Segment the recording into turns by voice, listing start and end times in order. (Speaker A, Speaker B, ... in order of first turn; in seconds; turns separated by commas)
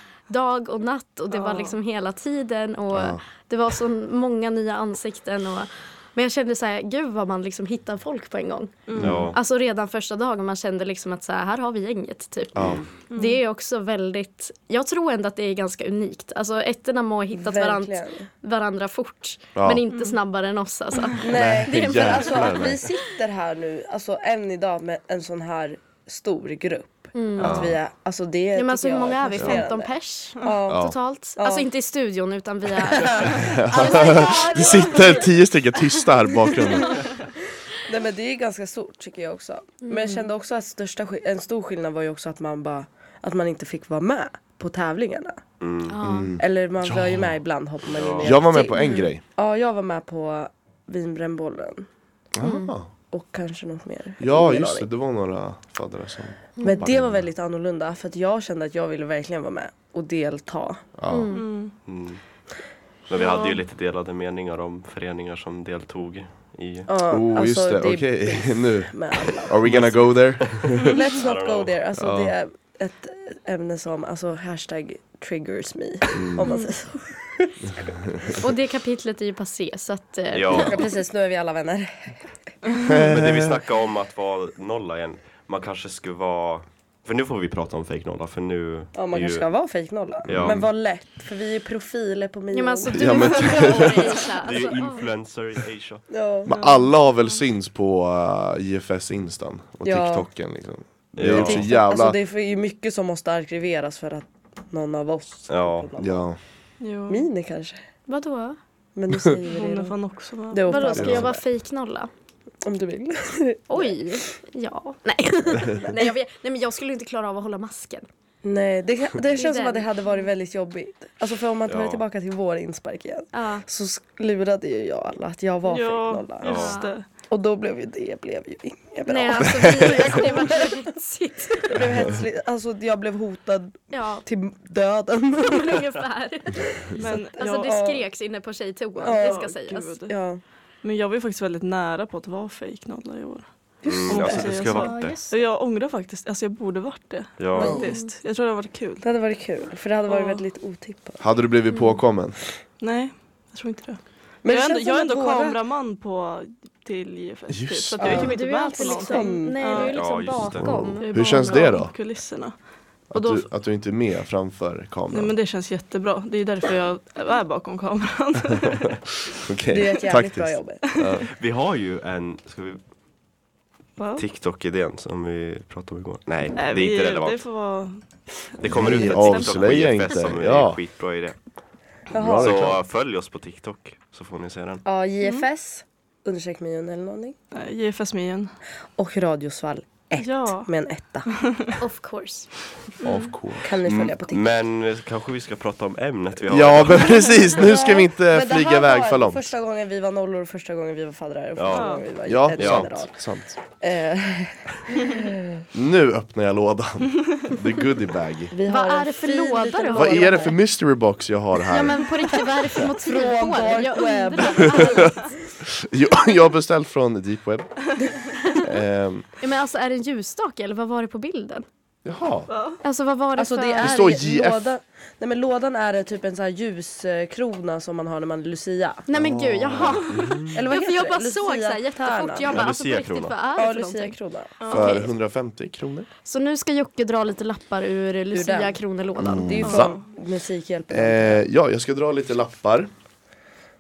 Speaker A: 0.3-22.7, Speaker B: 1.3-1.8, Speaker C: 2.9-3.2, Speaker B: 8.9-9.3, Speaker C: 9.0-9.3, Speaker D: 9.0-9.4, Speaker C: 12.6-12.8, Speaker D: 12.6-12.9, Speaker B: 13.1-13.4, Speaker E: 17.3-18.3, Speaker C: 19.6-19.8, Speaker E: 21.2-31.7, Speaker C: 21.3-22.8, Speaker A: 27.1-27.6, Speaker C: 27.4-27.8, Speaker A: 28.5-35.4, Speaker C: 29.4-29.6, Speaker C: 30.7-31.0, Speaker E: 32.9-35.1, Speaker C: 33.3-37.1, Speaker E: 37.8-45.4, Speaker A: 39.8-40.3, Speaker D: 45.6-46.0, Speaker A: 45.9-46.3, Speaker C: 46.0-47.4, Speaker E: 46.4-51.9, Speaker D: 47.9-48.4, Speaker C: 48.2-49.2, Speaker A: 48.8-49.1, Speaker C: 52.4-52.9, Speaker A: 52.4-52.8, Speaker E: 53.1-54.9, Speaker C: 54.2-57.3, Speaker A: 56.6-56.8, Speaker E: 56.6-60.8, Speaker C: 61.0-61.4, Speaker A: 61.1-61.5, Speaker B: 61.3-61.7, Speaker D: 61.9-62.2, Speaker D: 63.1-66.9, Speaker B: 63.2-63.6, Speaker E: 66.9-69.7, Speaker C: 67.1-70.9, Speaker D: 69.7-71.7, Speaker E: 70.8-78.3, Speaker C: 72.0-72.3, Speaker C: 76.2-76.5, Speaker A: 78.3-80.9, Speaker D: 80.3-80.8, Speaker E: 80.5-82.3, Speaker C: 82.9-83.6, Speaker D: 83.0-89.5, Speaker E: 88.9-94.0, Speaker D: 90.3-90.6, Speaker C: 90.3-90.7, Speaker A: 92.5-95.1, Speaker C: 92.9-94.2, Speaker D: 94.3-96.0, Speaker E: 96.1-96.5, Speaker C: 96.5-102.2, Speaker B: 96.5-96.9, Speaker E: 99.8-100.3, Speaker D: 101.2-101.7, Speaker E: 101.3-106.3, Speaker D: 105.5-105.9, Speaker C: 106.0-106.4, Speaker B: 106.8-107.3, Speaker E: 107.1-107.8, Speaker A: 108.1-108.6, Speaker E: 109.0-110.0, Speaker B: 109.5-111.0, Speaker E: 110.5-111.5, Speaker A: 110.7-112.1, Speaker C: 111.0-111.3, Speaker E: 112.6-114.2, Speaker A: 113.7-118.1, Speaker E: 118.4-126.5, Speaker A: 119.3-120.3, Speaker D: 121.7-122.0, Speaker A: 123.3-123.7, Speaker B: 125.7-127.0, Speaker A: 126.4-127.0, Speaker D: 126.4-126.8, Speaker E: 127.3-130.7, Speaker A: 129.1-132.1, Speaker E: 131.6-135.9, Speaker A: 133.9-134.3, Speaker A: 135.4-140.1, Speaker B: 137.0-137.8, Speaker E: 137.6-138.0, Speaker E: 139.0-140.4, Speaker B: 139.1-140.1, Speaker B: 140.8-143.5, Speaker E: 143.8-144.7, Speaker D: 143.9-145.2, Speaker B: 144.1-149.1, Speaker A: 144.7-145.4, Speaker D: 147.4-147.8, Speaker E: 147.6-147.9, Speaker A: 147.6-148.1, Speaker E: 149.0-151.2, Speaker B: 150.1-150.4, Speaker C: 151.2-152.4, Speaker B: 152.8-160.0, Speaker E: 154.4-155.6, Speaker C: 157.5-158.2, Speaker E: 158.0-159.9, Speaker A: 158.0-161.8, Speaker D: 159.9-160.8, Speaker C: 160.5-161.9, Speaker B: 161.0-163.5, Speaker C: 163.1-165.4, Speaker B: 165.1-169.1, Speaker C: 169.4-171.3, Speaker E: 169.7-170.8, Speaker D: 171.3-172.8, Speaker B: 174.0-174.2, Speaker D: 174.2-177.4, Speaker B: 176.6-179.8, Speaker D: 178.6-181.4, Speaker C: 178.7-180.8, Speaker E: 182.1-182.6, Speaker C: 182.1-182.8, Speaker D: 182.4-184.8, Speaker E: 184.8-187.4, Speaker B: 187.5-188.5, Speaker E: 189.0-191.3, Speaker B: 190.2-190.7, Speaker A: 191.8-192.5, Speaker B: 193.0-193.3, Speaker C: 193.0-193.8, Speaker E: 193.6-194.4, Speaker D: 193.9-197.5, Speaker C: 196.5-199.5, Speaker E: 197.5-203.2, Speaker D: 201.6-202.0, Speaker B: 201.7-202.1, Speaker C: 202.3-203.6, Speaker D: 202.6-202.9, Speaker E: 203.7-205.6, Speaker C: 205.7-208.5, Speaker E: 208.5-210.6, Speaker A: 208.7-210.5, Speaker C: 209.9-212.1, Speaker A: 211.7-215.3, Speaker E: 213.0-215.2, Speaker C: 215.6-219.2, Speaker A: 219.4-221.7, Speaker C: 222.1-222.5, Speaker B: 222.5-222.8, Speaker A: 222.8-224.0, Speaker E: 223.4-229.1, Speaker C: 223.8-224.6, Speaker A: 229.1-235.1, Speaker C: 229.1-230.4, Speaker E: 230.5-232.6, Speaker D: 232.5-233.4, Speaker E: 233.6-234.7, Speaker B: 234.6-234.9, Speaker C: 234.7-236.1, Speaker A: 236.2-239.8, Speaker E: 238.3-238.8, Speaker C: 239.2-239.9, Speaker E: 239.3-241.4, Speaker B: 239.7-240.0, Speaker C: 240.9-242.9